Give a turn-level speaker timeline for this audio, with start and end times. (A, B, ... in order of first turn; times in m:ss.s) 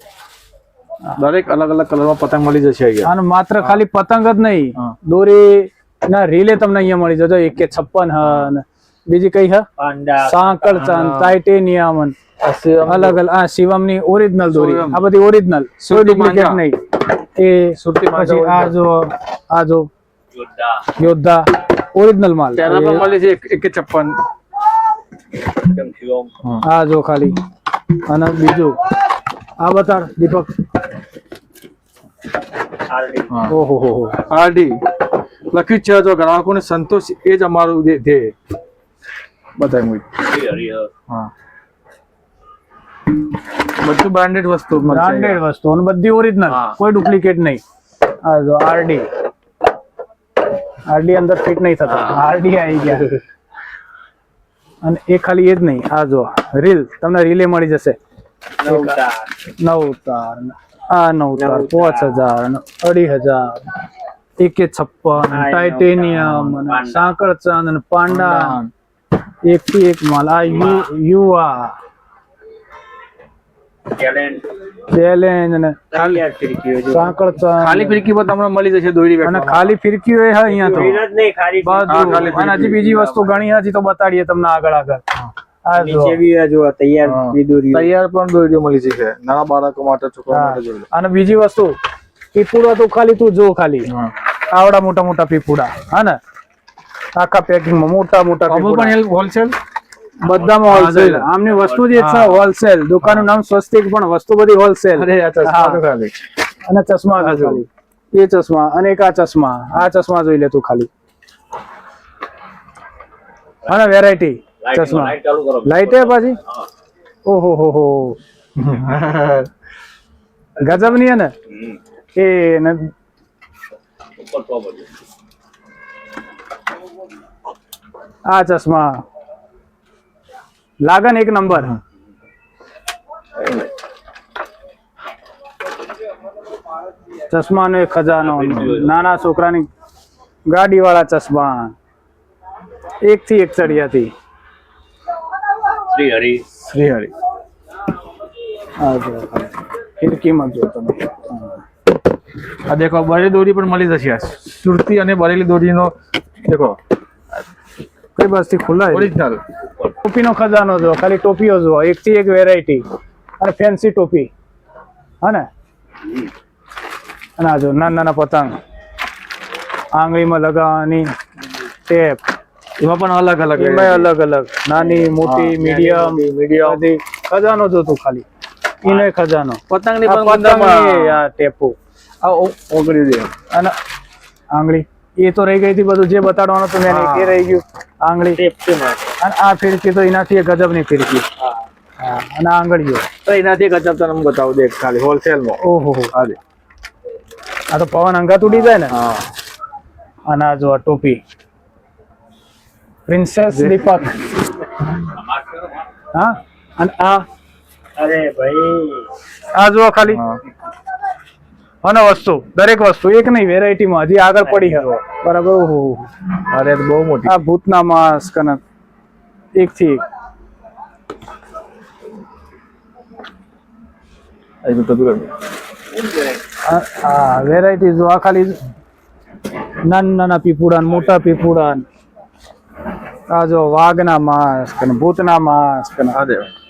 0:01.2-0:03.1 A
0:03.0-0:09.6 B
0:09.8-0:10.9 C
0:10.2-0:12.2 B
0:10.8-0:11.4 A
0:12.4-0:13.2 A
0:12.9-0:19.9 B
0:14.5-0:15.0 A
0:15.8-0:16.6 A
0:17.8-0:18.8 A
0:21.0-0:23.1 B
0:22.6-0:24.2 A
0:25.7-0:26.6 A
0:26.6-0:27.4 B
0:28.0-0:28.8 B
0:29.6-0:30.5 B
0:32.9-0:33.5 C
0:33.3-0:33.6 A
0:33.5-0:34.2 B
0:34.3-0:34.8 A
0:35.5-0:38.3 A
0:39.6-0:41.3 A
0:43.7-0:45.4 A
0:44.9-0:47.6 B
0:46.5-0:46.8 A
0:48.2-0:49.1 B
0:50.9-0:53.1 B
0:54.8-0:58.0 B
0:58.6-0:59.3 C
0:58.6-0:59.0 B
0:59.6-1:03.6 B
1:01.4-1:02.2 C
1:04.4-1:08.6 B
1:05.3-1:07.0 C
1:08.1-1:08.7 A
1:09.4-1:11.8 B
1:14.0-1:14.4 C
1:14.9-1:16.2 B
1:15.9-1:17.1 C
1:16.9-1:18.0 B
1:17.5-1:19.7 A
1:19.2-1:21.0 B
1:20.5-1:22.6 C
1:21.6-1:25.0 B
1:21.9-1:23.2 A
1:25.7-1:26.2 B
1:25.8-1:27.9 C
1:27.1-1:30.9 A
1:30.3-1:31.8 B
1:32.3-1:33.9 B
1:34.5-1:36.2 B
1:37.2-1:39.0 B
1:38.5-1:39.6 A
1:40.2-1:45.8 B
1:40.4-1:42.5 A
1:45.0-1:46.2 A
1:46.7-1:50.9 B
1:47.2-1:47.6 A
1:53.7-1:56.4 B
1:57.3-1:58.2 B
1:58.6-1:59.5 A
2:00.6-2:01.3 B
2:02.2-2:02.9 B
2:08.3-2:09.0 B
2:10.8-2:11.8 B
2:13.4-2:13.7 A
2:17.3-2:19.7 B
2:18.5-2:18.8 A
2:20.5-2:21.7 B
2:23.0-2:24.1 B
2:25.9-2:27.1 A
2:28.8-2:31.6 B
2:32.7-2:35.9 A
2:36.4-2:36.8 A
2:38.2-2:39.1 B
2:38.9-2:39.4 A
2:40.0-2:42.8 B
2:43.4-2:44.3 B
2:45.2-2:45.5 B
2:47.4-2:48.6 B
2:49.9-2:51.1 B
2:51.9-2:52.2 B
2:52.8-2:54.1 A
2:53.6-2:58.2 B
2:54.8-2:56.8 A
2:58.8-3:01.8 B
2:59.7-3:01.2 A
3:02.2-3:03.3 A
3:04.5-3:08.4 B
3:06.9-3:07.5 A
3:08.4-3:09.1 C
3:09.2-3:11.3 B
3:12.0-3:13.1 B
3:13.2-3:16.4 A
3:15.6-3:16.1 B
3:17.7-3:18.9 B
3:18.6-3:19.3 A
3:20.3-3:21.2 B
3:23.1-3:24.3 B
3:26.1-3:27.3 B
3:28.0-3:29.1 C
3:29.6-3:30.2 B
3:30.1-3:30.4 A
3:31.8-3:36.1 B
3:34.4-3:34.8 C
3:36.5-3:37.4 A
3:37.2-3:38.6 B
3:39.6-3:40.0 B
3:44.6-3:45.3 A
3:46.7-3:48.6 B
3:49.9-3:51.8 B
3:53.3-3:56.2 B
3:56.1-3:56.5 A